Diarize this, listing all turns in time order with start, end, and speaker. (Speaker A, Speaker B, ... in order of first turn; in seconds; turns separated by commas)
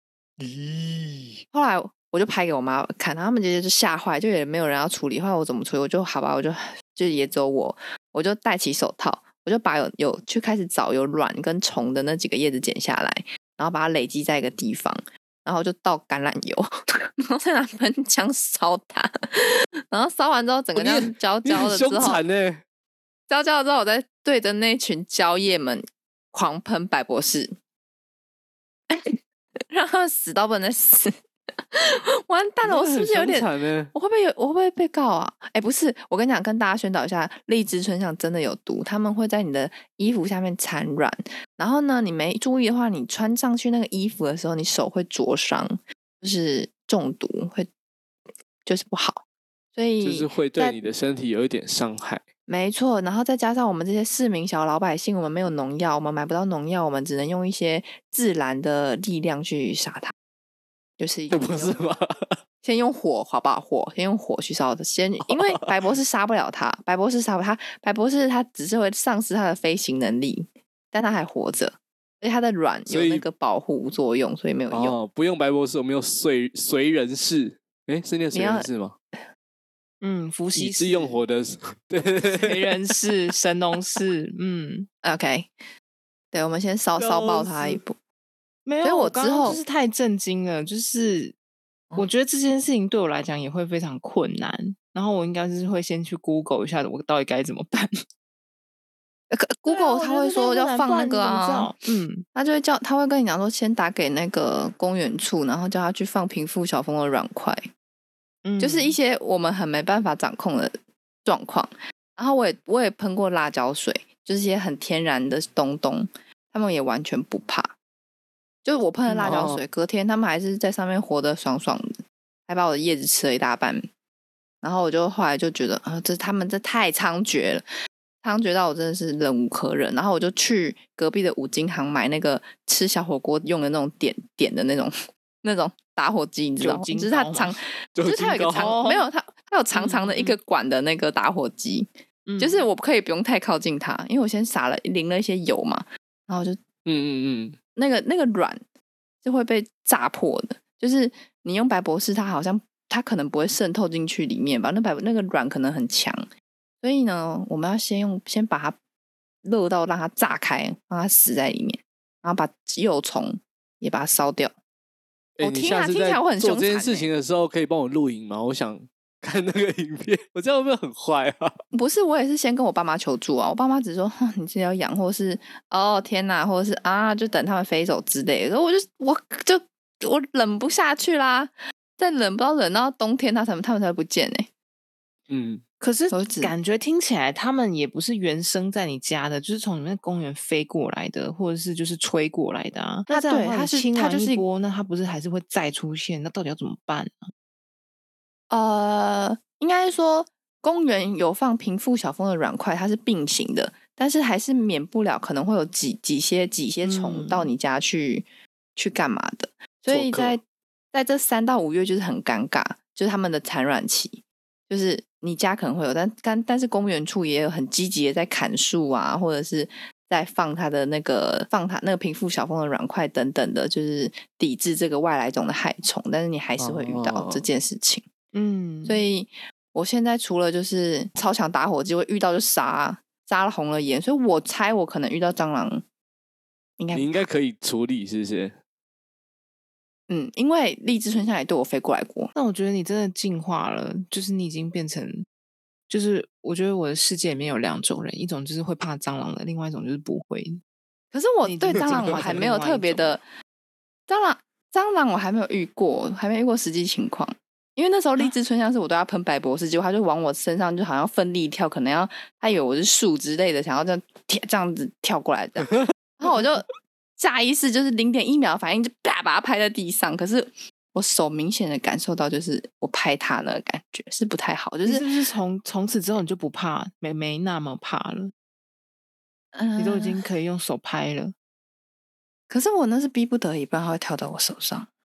Speaker A: 0.4-1.4, Speaker B: 1.5-22.2, Speaker A: 20.8-22.6, Speaker B: 23.3-27.6, Speaker B: 28.9-29.2, Speaker B: 29.7-31.1, Speaker B: 31.7-47.7, Speaker A: 32.6-33.9, Speaker B: 48.7-49.2, Speaker B: 49.8-50.8, Speaker A: 50.0-52.2, Speaker B: 52.5-60.1, Speaker B: 61.0-61.8, Speaker A: 61.3-62.4, Speaker B: 62.6-75.0, Speaker A: 65.2-65.7, Speaker A: 72.9-73.2, Speaker A: 74.7-79.0, Speaker B: 78.3-78.7, Speaker C: 80.0-81.2, Speaker A: 80.6-82.7, Speaker C: 82.3-84.9, Speaker B: 85.0-85.5, Speaker B: 86.3-88.0, Speaker A: 87.0-87.8, Speaker C: 88.7-91.3, Speaker B: 88.8-89.6, Speaker C: 92.0-97.9, Speaker B: 99.3-101.7, Speaker C: 99.7-102.2, Speaker B: 102.3-107.7, Speaker C: 108.5-109.0, Speaker B: 108.6-117.8, Speaker B: 118.7-123.8, Speaker A: 119.1-119.6, Speaker B: 124.6-127.6, Speaker B: 128.2-146.6, Speaker C: 136.6-137.6, Speaker A: 138.0-138.8, Speaker C: 138.6-139.1, Speaker C: 139.7-140.4, Speaker C: 142.3-142.6, Speaker A: 146.8-147.6, Speaker B: 147.8-148.6, Speaker B: 149.2-156.3, Speaker B: 156.8-158.8, Speaker B: 159.4-164.5, Speaker A: 165.4-171.6, Speaker B: 165.4-167.1, Speaker B: 171.7-184.5, Speaker A: 185.3-185.6, Speaker C: 185.8-197.3, Speaker B: 186.1-186.5, Speaker B: 193.1-194.4, Speaker B: 198.5-210.4, Speaker C: 206.8-207.5, Speaker A: 209.9-210.4, Speaker B: 210.9-228.1, Speaker A: 226.6-227.4, Speaker C: 228.3-229.1, Speaker B: 228.8-235.8, Speaker B: 236.8-237.2, Speaker A: 236.9-238.6, Speaker B: 240.1-242.3, Speaker C: 242.3-245.3, Speaker C: 245.9-250.6, Speaker B: 251.1-253.2, Speaker C: 251.4-253.2, Speaker A: 251.9-252.4, Speaker B: 254.1-275.1, Speaker C: 274.9-278.3, Speaker B: 279.5-280.2, Speaker C: 279.8-281.3, Speaker B: 282.5-284.9